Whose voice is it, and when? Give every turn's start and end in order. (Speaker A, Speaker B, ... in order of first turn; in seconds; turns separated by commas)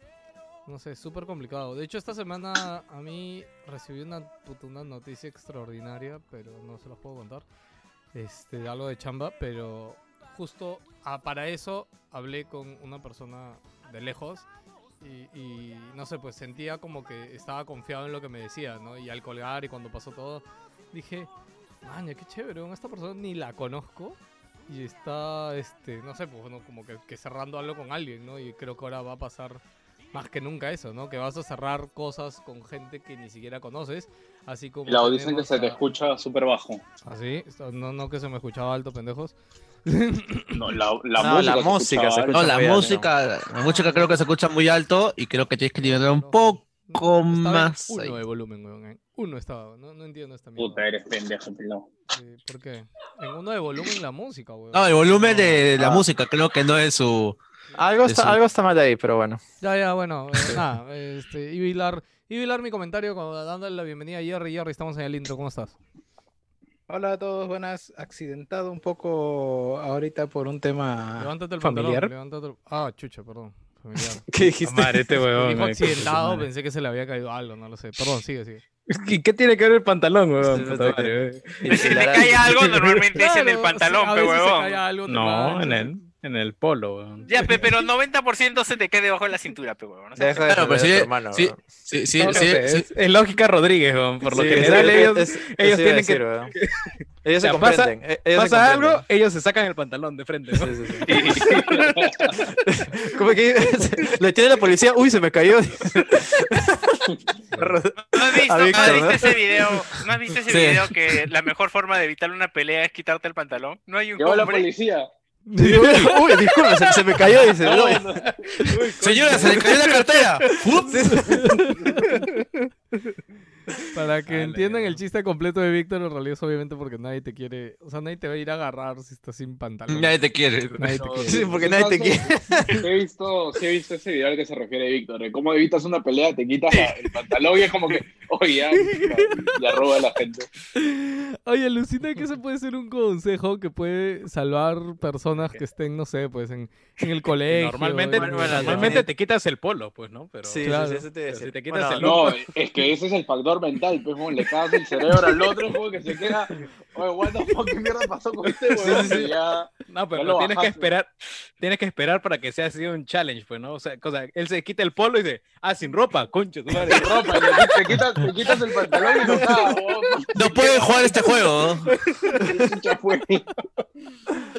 Speaker A: 0.7-7.4, Speaker A: 8.1-14.4, Speaker A: 15.0-21.3, Speaker A: 21.8-29.6, Speaker A: 30.1-35.8, Speaker B: 34.9-36.8, Speaker A: 37.0-39.3, Speaker A: 39.8-40.6, Speaker B: 40.5-42.5, Speaker C: 41.1-43.1, Speaker D: 42.3-48.2, Speaker A: 43.6-44.2, Speaker A: 45.8-50.8, Speaker B: 50.6-51.9, Speaker A: 52.1-55.7, Speaker D: 54.7-57.4, Speaker C: 55.8-56.0, Speaker C: 57.8-59.4, Speaker D: 58.0-58.4, Speaker A: 59.6-65.8, Speaker E: 66.9-72.1, Speaker A: 71.2-74.2, Speaker C: 74.3-75.1, Speaker E: 74.6-76.5, Speaker A: 75.3-78.6, Speaker E: 78.9-83.0, Speaker C: 80.4-82.5, Speaker F: 81.7-84.8, Speaker A: 83.2-86.0, Speaker E: 85.1-87.3, Speaker A: 87.3-87.7, Speaker F: 87.3-90.5, Speaker C: 90.2-91.6, Speaker D: 90.5-92.9, Speaker E: 92.2-102.5, Speaker C: 94.2-96.5, Speaker C: 97.2-99.0, Speaker C: 100.5-101.8, Speaker B: 101.0-102.4, Speaker C: 102.6-109.7, Speaker E: 107.5-107.8, Speaker F: 108.0-114.7, Speaker D: 110.5-111.3, Speaker B: 114.2-115.1, Speaker A: 115.5-116.4, Speaker C: 115.6-118.0, Speaker E: 117.4-123.1, Speaker B: 117.6-117.9, Speaker D: 119.0-121.3, Speaker A: 121.1-122.3, Speaker A: 123.9-130.2, Speaker E: 124.2-125.0, Speaker D: 129.9-131.5, Speaker A: 130.8-131.6, Speaker C: 131.2-132.9, Speaker B: 131.6-140.5, Speaker A: 138.8-139.5, Speaker A: 140.8-149.1, Speaker E: 147.5-150.7, Speaker C: 148.1-149.0, Speaker C: 150.4-152.1, Speaker A: 150.6-151.1, Speaker E: 151.3-152.4, Speaker B: 152.0-160.9, Speaker E: 156.1-156.4, Speaker E: 158.4-159.2, Speaker C: 158.8-159.3, Speaker E: 159.8-168.0, Speaker B: 166.7-171.0, Speaker E: 168.5-169.8, Speaker D: 170.3-171.9, Speaker E: 171.0-172.4, Speaker B: 172.3-173.5